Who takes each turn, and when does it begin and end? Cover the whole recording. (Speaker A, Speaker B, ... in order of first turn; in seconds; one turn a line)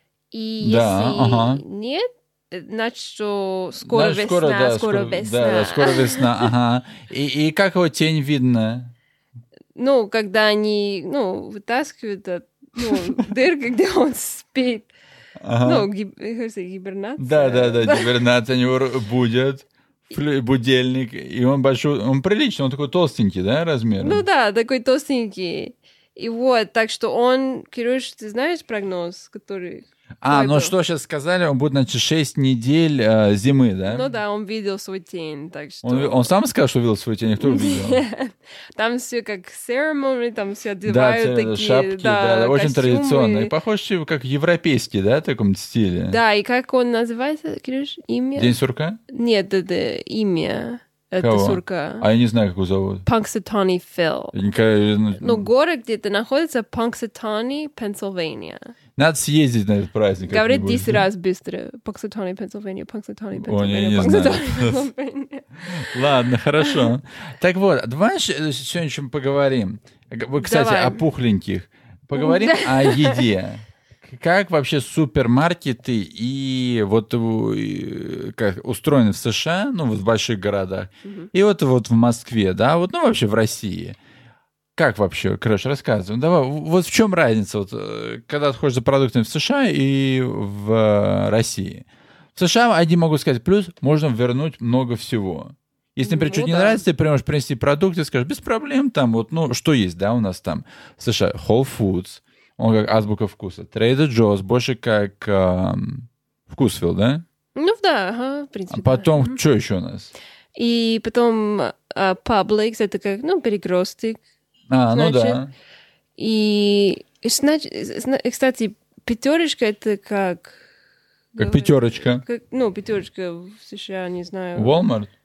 Speaker A: 0.3-6.5
Speaker B: 0.6-1.6
Speaker B: 3.8-8.9
Speaker A: 9.7-14.9
Speaker B: 15.4-15.9
Speaker A: 15.6-18.1
Speaker B: 17.2-24.2
Speaker A: 24.0-30.7
Speaker B: 30.2-34.0
Speaker A: 33.8-36.3
Speaker B: 35.8-38.0
Speaker A: 37.4-43.5
Speaker B: 40.8-46.2
Speaker A: 46.1-48.6
Speaker B: 48.4-49.0
Speaker A: 49.1-52.1
Speaker B: 51.2-53.0
Speaker A: 53.0-54.3
Speaker B: 54.3-55.5
Speaker A: 55.2-58.6
Speaker B: 59.0-61.1
Speaker A: 60.2-66.9
Speaker B: 63.3-64.9
Speaker B: 65.6-84.0
Speaker A: 70.4-71.0
Speaker A: 72.1-73.2
Speaker A: 81.0-81.3
Speaker B: 84.8-91.8
Speaker B: 92.3-107.2
Speaker A: 96.0-96.8
Speaker A: 107.5-109.4
Speaker B: 108.7-110.1
Speaker A: 110.6-114.2
Speaker B: 114.7-115.5
Speaker A: 114.9-115.4
Speaker A: 116.2-120.6
Speaker A: 121.3-124.8
Speaker B: 121.4-122.2
Speaker B: 124.5-125.1